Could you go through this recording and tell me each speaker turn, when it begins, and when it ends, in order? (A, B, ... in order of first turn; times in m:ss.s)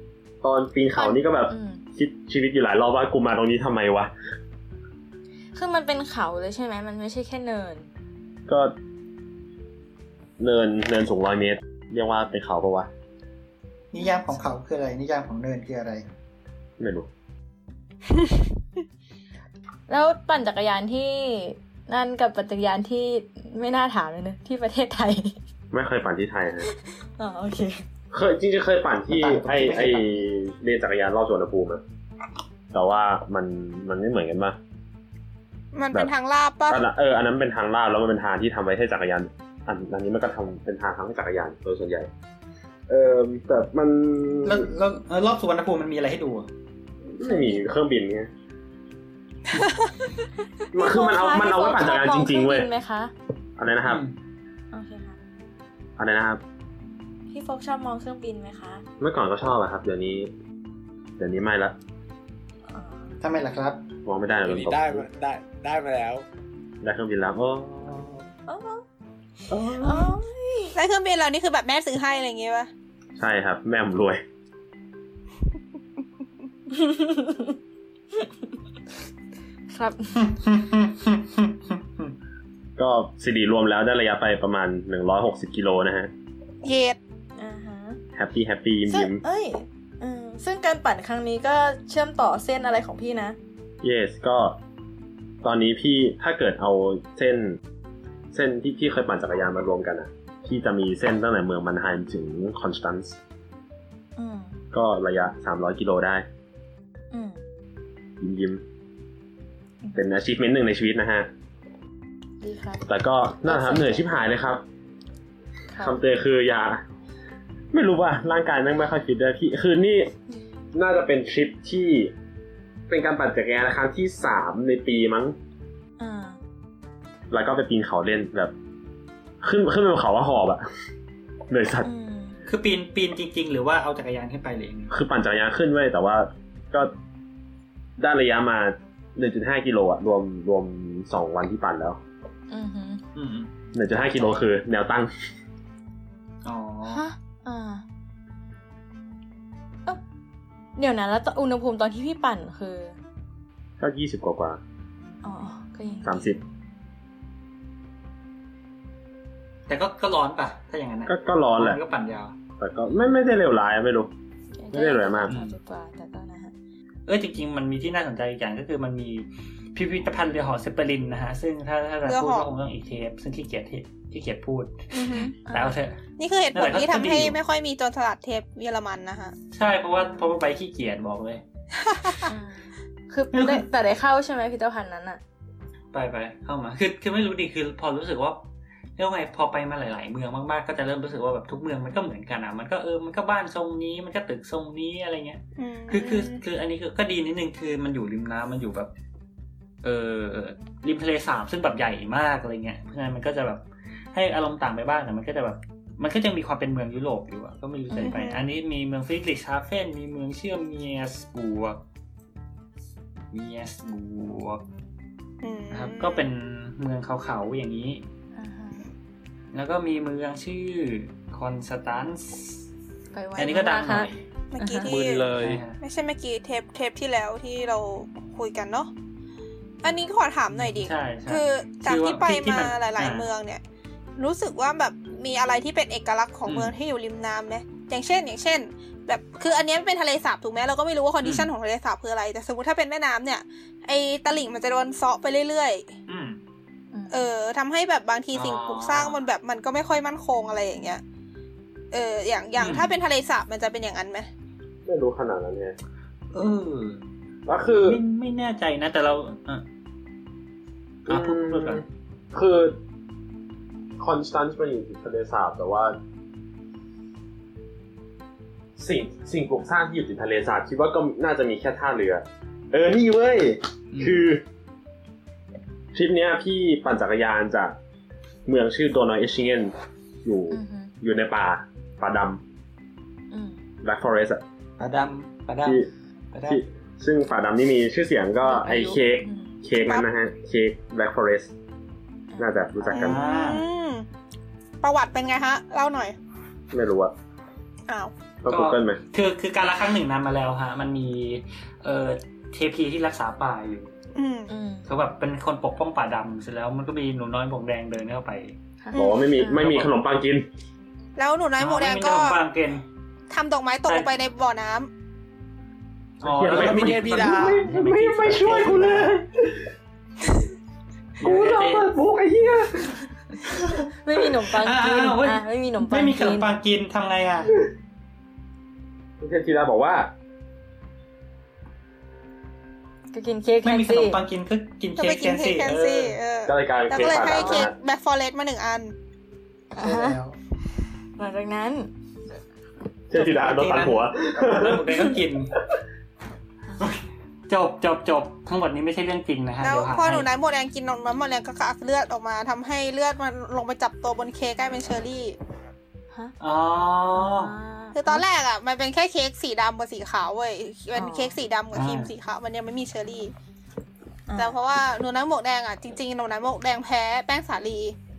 0:00.4-0:04.1 A
0:01.0-0:01.8 B
0:05.5-0:07.9 B
0:08.5-0:08.7 A
0:10.4-0:12.9 A
0:13.9-0:16.1 C
0:14.0-0:14.4 B
0:16.8-0:17.1 A
0:19.9-0:25.4 B
0:25.7-0:26.7 A
0:26.7-0:27.8 B
0:28.1-0:31.8 A
0:29.1-0:30.2 C
0:32.7-0:34.6 A
0:35.7-0:36.8 D
0:36.7-0:42.1 A
0:42.9-0:44.7 A
0:44.4-0:46.5 E
0:47.1-0:48.3 A
0:47.2-0:47.6 B
0:49.5-0:49.9 D
0:50.7-0:52.7 A
0:50.8-0:53.1 B
0:53.6-0:54.0 A
0:53.8-0:54.1 E
0:54.7-0:55.2 B
0:56.0-0:56.4 A
0:57.3-0:58.8 B
0:59.0-1:00.3 A
1:01.2-1:01.8 A
1:02.7-1:03.2 B
1:03.2-1:03.8 C
1:04.0-1:05.1 A
1:04.4-1:06.2 F
1:06.8-1:08.3 A
1:08.5-1:08.8 B
1:09.5-1:10.2 A
1:09.6-1:10.8 B
1:10.8-1:12.7 D
1:13.2-1:14.2 A
1:16.7-1:17.6 B
1:19.7-1:20.2 B
1:20.2-1:22.1 E
1:22.8-1:26.1 A
1:26.6-1:27.0 D
1:27.4-1:28.0 B
1:28.1-1:29.2 A
1:28.9-1:33.4 B
1:33.8-1:34.6 A
1:35.4-1:37.6 A
1:38.3-1:43.2 A
1:44.2-1:44.6 B
1:44.7-1:46.2 A
1:47.1-1:47.4 B
1:48.2-1:48.6 A
1:50.0-1:51.3 A
1:52.4-1:52.8 B
1:52.9-1:54.6 A
1:53.5-1:54.2 B
1:55.7-1:56.0 B
1:55.8-1:56.8 A
1:57.7-2:00.1 A
2:00.7-2:02.1 A
2:02.9-2:05.4 A
2:06.0-2:06.4 B
2:07.3-2:08.5 A
2:09.4-2:10.6 A
2:11.5-2:11.9 A
2:11.8-2:12.4 B
2:12.5-2:15.0 E
2:14.9-2:16.9 A
2:18.0-2:22.0 A
2:22.5-2:23.0 B
2:23.1-2:23.5 E
2:23.7-2:25.1 A
2:26.4-2:27.0 E
2:26.9-2:27.8 B
2:30.8-2:33.0 B
2:33.8-2:34.6 A
2:35.2-2:36.3 B
2:36.0-2:36.4 A
2:39.7-2:42.4 E
2:41.1-2:41.8 A
2:42.6-2:44.1 A
2:44.6-2:46.5 B
2:44.7-2:45.3 A
2:45.3-2:45.6 E
2:47.1-2:56.0 E
2:52.0-2:52.5 D
2:54.9-2:55.4 D
2:55.1-2:55.8 B
2:56.2-2:59.4 D
2:56.5-2:57.4 E
2:59.5-3:01.4 E
3:01.8-3:02.2 D
3:02.3-3:05.2 B
3:03.3-3:03.6 E
3:05.9-3:18.9 E
3:15.6-3:16.4 D
3:19.8-3:31.8 E
3:27.9-3:28.3 B
3:28.0-3:28.4 D
3:33.3-3:34.6 E
3:35.4-3:36.3 D
3:35.7-3:38.0 E
3:38.4-3:38.9 B
3:39.5-3:42.6 E
3:43.1-3:44.9 B
3:43.4-3:44.2 E
3:44.5-3:48.9 D
3:44.8-3:45.6 F
3:45.3-3:45.8 E
3:49.8-3:53.6 D
3:50.5-3:53.3 E
3:54.2-4:05.9 D
3:56.5-3:56.7 E
4:01.2-4:01.5 E
4:06.1-4:06.4 E
4:06.9-4:07.3 B
4:07.1-4:11.0 D
4:08.3-4:09.2 E
4:11.9-4:14.3 D
4:12.6-4:13.0 E
4:14.9-4:15.8 A
4:16.3-4:17.0 E
4:17.5-4:18.0 A
4:17.8-4:19.6 E
4:21.1-4:21.8 E
4:21.1-4:22.8 A
4:24.0-4:26.0 A
4:28.8-4:34.4 A
4:33.9-4:34.3 E
4:35.9-4:37.8 A
4:38.5-4:42.4 A
4:40.5-4:40.9 B
4:43.3-4:43.6 B
4:43.8-4:44.4 A
4:44.8-4:46.6 E
4:45.6-4:45.9 A
4:46.5-4:51.5 A
4:48.4-4:49.5 B
4:52.3-4:53.0 B
4:52.4-4:53.2 A
4:52.9-4:54.1 D
4:52.9-4:53.6 E
4:54.8-4:56.2 D
4:56.7-4:57.1 A
4:57.9-4:58.1 D
4:58.4-4:59.0 A
4:58.5-5:03.9 E
5:04.1-5:04.5 D
5:04.5-5:04.9 B
5:04.9-5:08.6 E
5:08.8-5:09.7 B
5:08.9-5:10.5 A
5:09.5-5:09.9 E
5:11.2-5:12.4 D
5:11.6-5:12.8 E
5:13.3-5:14.9 D
5:16.2-5:19.1 E
5:16.2-5:19.6 A
5:16.5-5:17.7 F
5:21.2-5:21.9 E
5:21.2-5:23.0 A
5:24.0-5:26.5 B
5:24.6-5:27.6 E
5:29.2-5:30.1 A
5:33.1-5:34.2 B
5:33.6-5:36.2 E
5:35.0-5:38.9 D
5:36.5-5:37.7 A
5:37.3-5:37.6 B
5:39.8-5:40.2 B
5:39.8-5:40.4 C
5:41.2-5:41.9 B
5:43.1-5:45.1 A
5:43.1-5:45.6 E
5:46.8-5:50.3 E
5:49.6-5:55.4 D
5:56.4-5:57.5 E
5:57.1-5:58.2 B
5:57.9-6:03.3 D
6:00.9-6:01.4 B
6:01.7-6:02.1 E
6:04.3-6:04.6 B
6:04.4-6:08.0 D